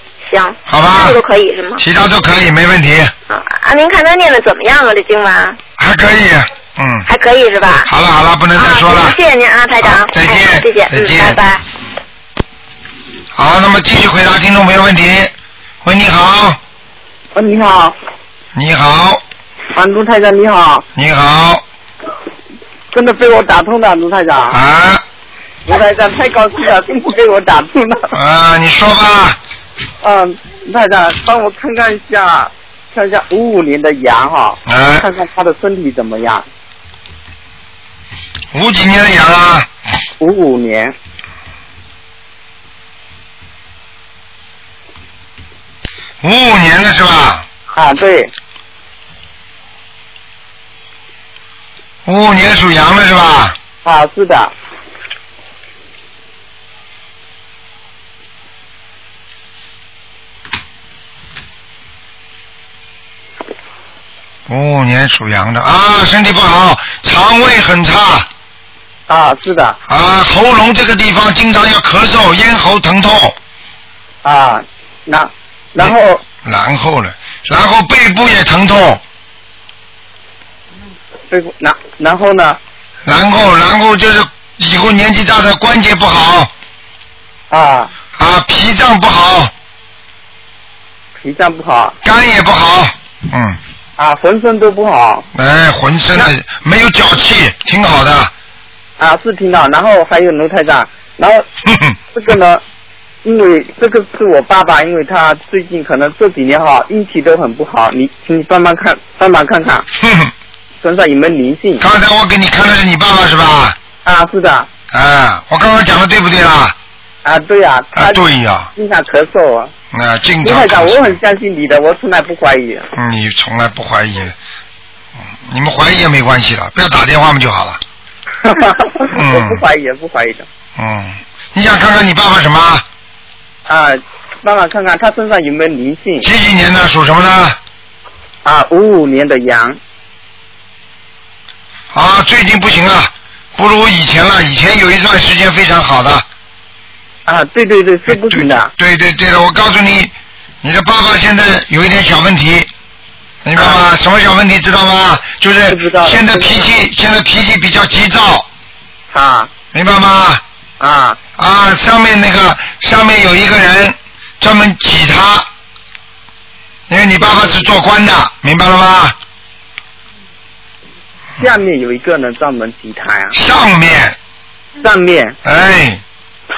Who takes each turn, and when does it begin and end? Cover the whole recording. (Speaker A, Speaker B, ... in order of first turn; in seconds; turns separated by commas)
Speaker A: 0.2-1.8, Speaker B: 0.7-1.2, Speaker B: 1.8-3.1, Speaker A: 3.3-5.6, Speaker B: 5.8-7.1, Speaker A: 7.0-7.9, Speaker B: 7.8-9.2, Speaker A: 8.5-11.6, Speaker B: 9.8-11.4, Speaker B: 13.3-15.3, Speaker B: 15.8-16.6, Speaker C: 17.3-17.9, Speaker B: 18.5-19.2, Speaker C: 19.7-20.9, Speaker B: 20.9-21.6, Speaker C: 22.9-24.6, Speaker B: 24.5-25.0, Speaker C: 25.6-28.1, Speaker B: 28.1-29.4, Speaker C: 30.0-36.4, Speaker B: 34.6-35.0, Speaker B: 38.5-39.7, Speaker C: 40.2-40.9, Speaker B: 46.2-47.4, Speaker C: 47.7-48.3, Speaker B: 52.0-53.5, Speaker C: 53.8-54.5, Speaker B: 64.5-68.3, Speaker C: 69.1-69.8, Speaker B: 69.9-73.4, Speaker C: 74.2-76.2, Speaker B: 76.4-79.0, Speaker C: 81.3-82.6, Speaker B: 83.0-86.5, Speaker C: 87.5-87.9, Speaker B: 88.2-89.5, Speaker C: 91.2-92.0, Speaker B: 92.0-93.6, Speaker C: 94.0-95.3, Speaker B: 95.3-98.3, Speaker C: 99.0-101.4, Speaker B: 101.7-102.0, Speaker C: 102.1-102.6, Speaker C: 103.2-109.9, Speaker B: 110.0-110.3, Speaker C: 110.8-111.8, Speaker B: 111.8-113.8, Speaker C: 114.0-114.7, Speaker B: 114.9-116.7, Speaker C: 117.2-118.2, Speaker B: 117.9-118.7, Speaker C: 118.8-119.7, Speaker B: 119.9-121.2, Speaker C: 120.4-122.9, Speaker B: 122.9-124.3, Speaker B: 125.5-127.8, Speaker C: 128.4-130.4, Speaker B: 129.1-129.6, Speaker B: 130.8-132.8, Speaker C: 133.7-136.3, Speaker B: 136.2-137.6, Speaker C: 138.4-139.8, Speaker B: 141.9-146.2, Speaker C: 147.2-148.7, Speaker B: 148.1-150.1, Speaker B: 150.6-152.7, Speaker B: 153.4-158.5, Speaker C: 153.6-153.8, Speaker C: 155.7-156.6, Speaker C: 159.1-159.5, Speaker B: 159.7-160.4, Speaker C: 160.8-161.2, Speaker B: 161.4-165.5, Speaker B: 166.9-169.2, Speaker C: 171.4-173.3, Speaker B: 173.3-174.2, Speaker C: 174.8-175.3, Speaker B: 175.4-176.0